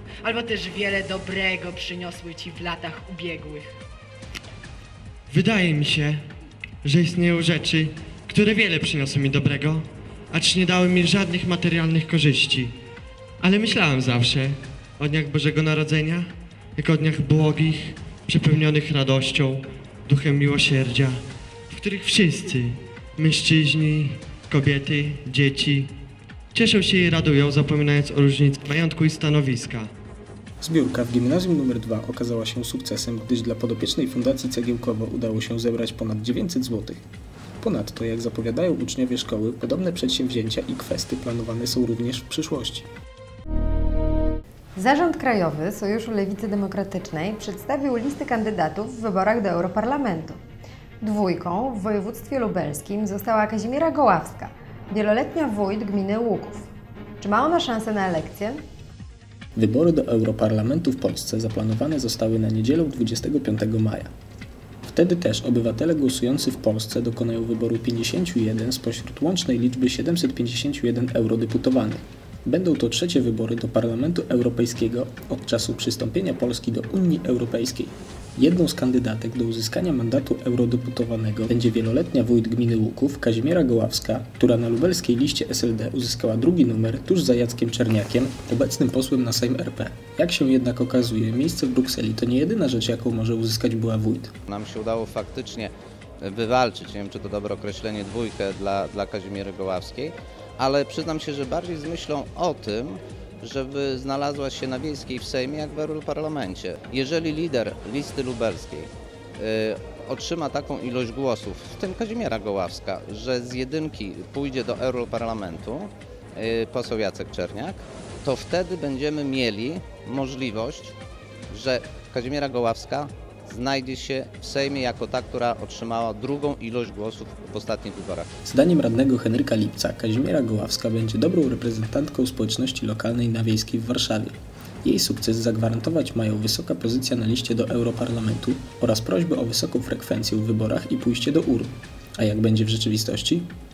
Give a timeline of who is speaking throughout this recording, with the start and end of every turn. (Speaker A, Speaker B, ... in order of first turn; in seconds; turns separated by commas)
Speaker A: 0.2-3.7, Speaker B: 5.3-6.2, Speaker B: 6.8-12.8, Speaker B: 13.4-25.9, Speaker B: 26.5-29.9, Speaker C: 30.6-37.0, Speaker C: 37.6-42.9, Speaker D: 44.8-50.4, Speaker D: 51.0-56.7, Speaker D: 57.2-58.6, Speaker C: 59.5-64.1, Speaker C: 64.8-94.3, Speaker E: 94.5-121.0, Speaker E: 121.5-128.3, Speaker C: 128.4-143.5